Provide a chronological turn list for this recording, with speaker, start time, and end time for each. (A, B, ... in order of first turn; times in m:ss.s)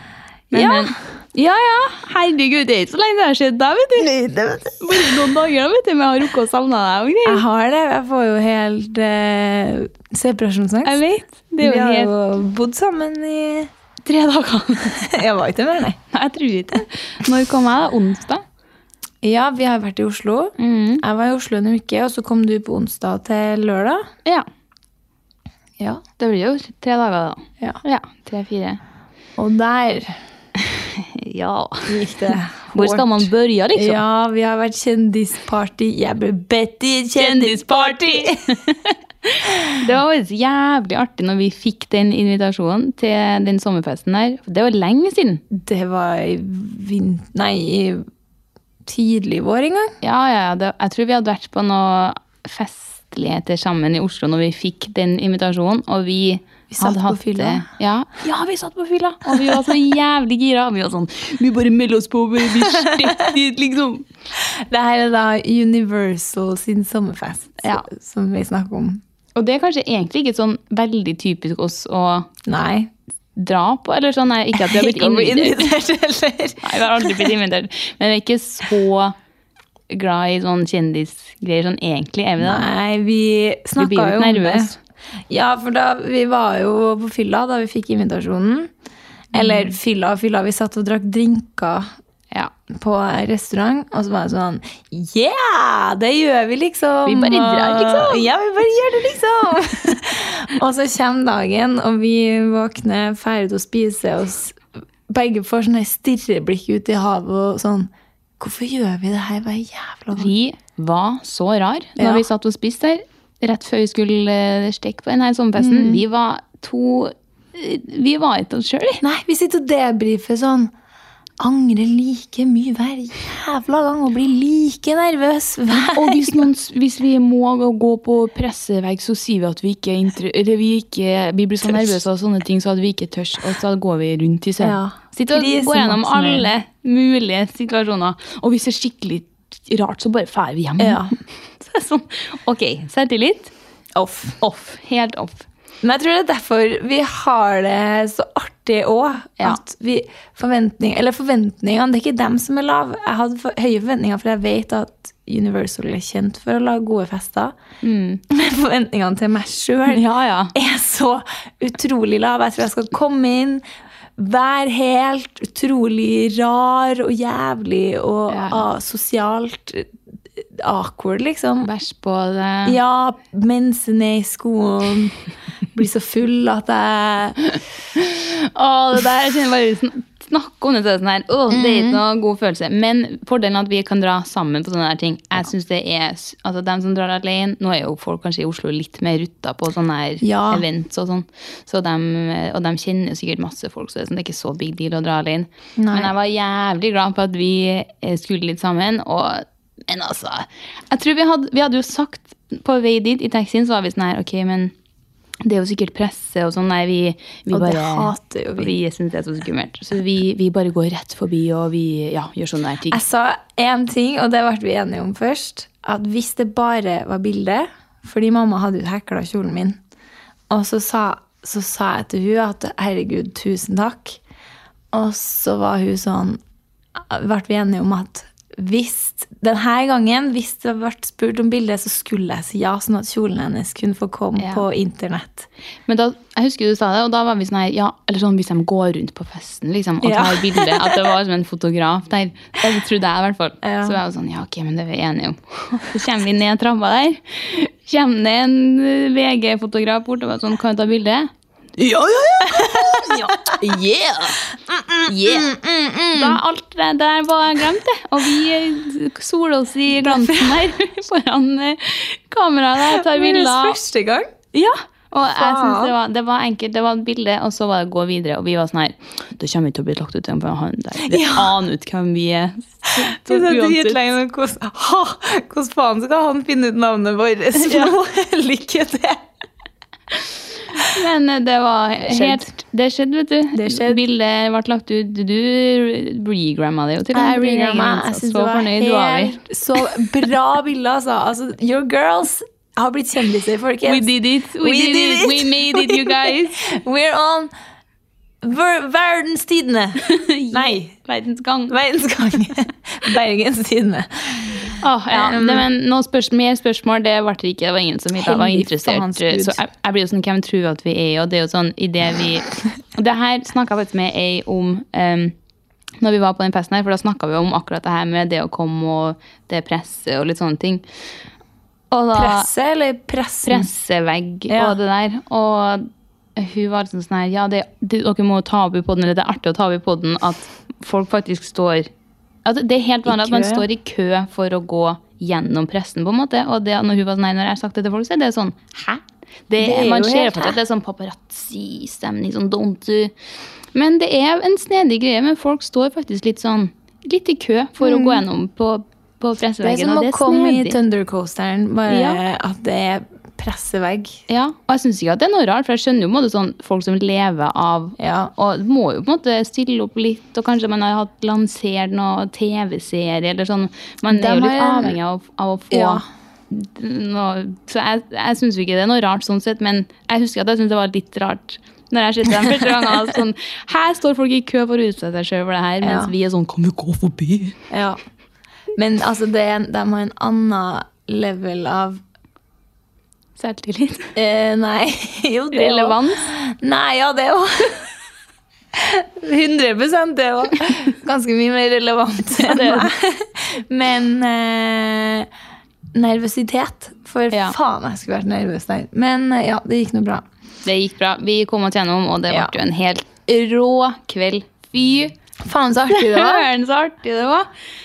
0:00.5-0:04.1 A
0:00.5-0:01.0 B
0:04.0-0:05.2 B
0:04.8-0:07.4 A
0:07.2-0:11.0 B
0:10.8-0:12.1 A
0:11.6-0:13.7 B
0:14.0-0:15.0 A
0:14.9-0:16.0 B
0:16.1-0:18.4 A
0:19.2-0:24.1 B
0:20.6-0:21.0 A
0:26.2-0:28.8 A
0:29.4-0:30.2 B
0:30.6-0:34.0 A
0:31.9-0:38.6 B
0:37.2-0:45.4 A
0:45.5-0:48.1 B
0:48.9-0:50.0 B
0:50.0-1:04.1 A
0:56.7-0:57.7 B
0:59.3-0:59.6 B
1:02.8-1:03.3 B
1:04.7-1:09.0 B
1:09.4-1:12.3 A
1:12.5-1:12.9 B
1:13.4-1:15.7 A
1:14.6-1:17.3 B
1:16.6-1:19.2 A
1:19.9-1:22.7 A
1:22.4-1:24.7 B
1:23.8-1:24.8 A
1:25.3-1:28.7 B
1:29.3-1:31.9 B
1:29.4-1:29.7 A
1:32.8-1:50.3 B
1:37.1-1:38.3 A
1:50.2-1:59.0 A
1:52.0-1:52.2 B
1:55.6-1:56.0 B
1:59.0-2:00.7 B
2:01.4-2:06.5 B
2:05.7-2:21.0 A
2:14.6-2:16.5 B
2:20.8-2:21.1 B
2:21.6-2:23.5 A
2:24.0-2:24.4 B
2:24.4-2:25.5 A
2:25.8-2:37.6 B
2:37.8-2:38.2 A
2:38.3-2:43.6 B
2:39.9-2:40.5 A
2:44.2-2:49.9 B
2:48.3-2:48.6 A
2:50.4-2:51.7 B
2:51.6-2:52.8 A
2:52.6-2:55.2 B
2:55.7-2:57.4 B
2:58.0-3:24.7 A
3:01.5-3:02.0 B
3:10.2-3:10.6 B
3:15.8-3:16.1 B
3:25.4-3:33.0 A
3:27.5-3:28.7 B
3:32.9-3:39.8 B
3:40.5-3:44.2 B
3:44.9-3:46.4 B
3:47.0-3:55.5 B
3:54.4-3:54.6 A
3:55.9-4:14.4 A
4:00.0-4:01.0 B
4:03.6-4:04.0 B
4:12.5-4:13.5 B
4:14.7-4:16.4 B
4:15.1-4:15.6 A
4:16.1-4:23.8 A
4:20.0-4:20.6 B
4:22.8-4:24.3 B
4:24.5-4:34.0 A
4:25.3-4:25.9 B
4:31.0-4:31.6 B
4:33.0-4:39.3 B
4:37.6-4:37.9 A
4:40.7-4:50.0 A
4:42.0-4:42.5 B
4:43.5-4:44.0 B
4:47.1-4:57.5 B
4:53.8-4:56.6 A
4:58.4-5:00.9 B
5:00.0-5:01.8 A
5:01.7-5:05.7 B
5:04.8-5:15.3 A
5:08.2-5:09.6 B
5:16.0-5:20.8 A
5:21.9-5:22.5 A
5:22.1-5:23.7 B
5:23.4-5:31.9 A
5:24.5-5:24.8 B
5:32.4-5:43.1 A
5:33.1-5:33.6 B
5:39.6-5:40.6 B
5:43.7-5:50.8 A
5:47.8-5:48.2 B
5:49.6-5:54.2 B
5:51.9-5:52.2 A
5:54.3-6:17.6 A
5:58.0-5:58.3 B
6:04.1-6:05.0 B
6:05.7-6:06.0 B
6:15.8-6:16.1 B
6:17.7-6:18.0 B
6:18.8-6:22.0 B
6:23.4-6:24.1 A
6:24.2-6:27.9 B
6:25.5-6:26.2 A
6:28.8-6:35.3 B
6:32.4-6:32.9 A
6:36.0-6:40.2 B
6:40.6-6:45.1 A
6:45.4-6:46.5 B
6:45.9-6:47.5 A